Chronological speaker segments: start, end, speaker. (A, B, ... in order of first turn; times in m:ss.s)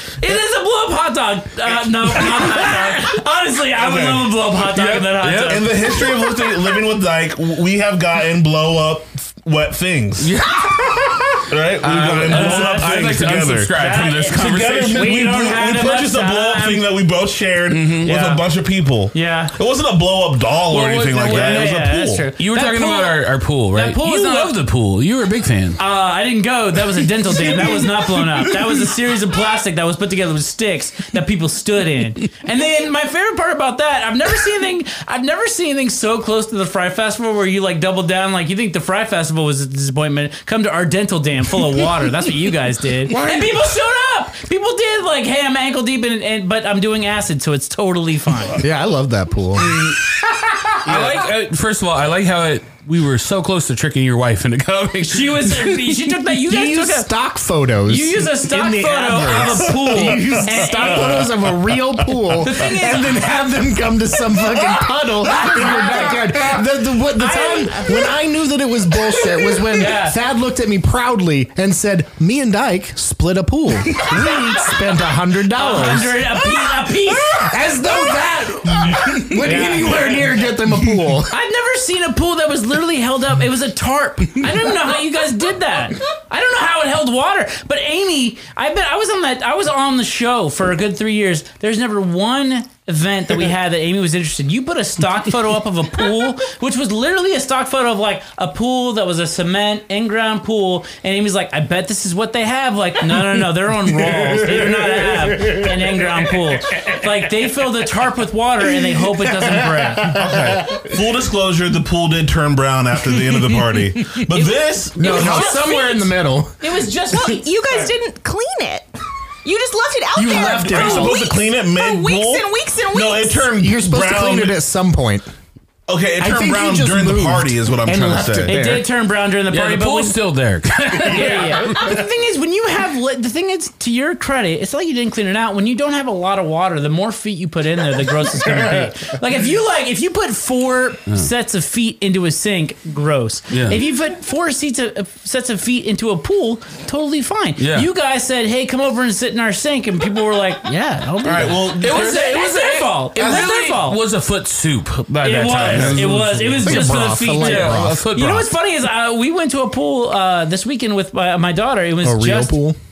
0:00.2-0:06.1 A
0:02.1-0:03.1 B
0:03.8-0:04.4 B
0:04.6-0:05.7 C
0:05.5-0:10.3 B
0:10.2-0:15.2 C
0:11.4-0:22.3 B
0:12.2-0:16.9 A
0:17.7-0:18.2 C
0:18.0-0:18.5 A
0:19.1-0:19.6 A
0:20.7-0:25.8 C
0:21.2-0:24.6 A
0:25.8-0:48.6 A
0:43.1-0:43.5 B
0:48.6-0:49.8 D
0:50.8-0:55.9 C
0:50.9-0:51.2 B
0:55.0-0:57.1 A
0:56.4-1:16.5 D
0:57.9-1:01.3 A
0:59.3-1:01.3 B
1:02.4-1:03.5 A
1:05.2-1:06.6 A
1:07.2-1:08.2 A
1:09.6-1:10.2 A
1:15.5-1:17.6 A
1:17.2-1:21.4 D
1:19.4-1:20.3 A
1:21.3-1:50.2 A
1:44.3-1:45.6 D
1:49.2-1:50.8 D
1:50.1-1:55.7 B
1:54.3-1:58.0 A
1:55.0-1:56.7 D
1:57.1-1:58.9 E
1:59.4-2:03.5 E
2:00.2-2:01.2 D
2:00.4-2:04.6 B
2:03.6-2:05.3 D
2:05.9-2:08.6 B
2:06.2-2:08.9 D
2:08.5-2:10.2 A
2:09.5-2:11.9 C
2:11.0-2:34.0 A
2:23.5-2:23.8 C
2:27.6-2:27.9 C
2:31.2-2:32.6 B
2:31.8-2:38.5 C
2:33.2-2:33.6 B
2:35.2-2:42.6 A
2:35.5-2:36.2 B
2:36.6-2:38.1 D
2:42.0-2:42.8 D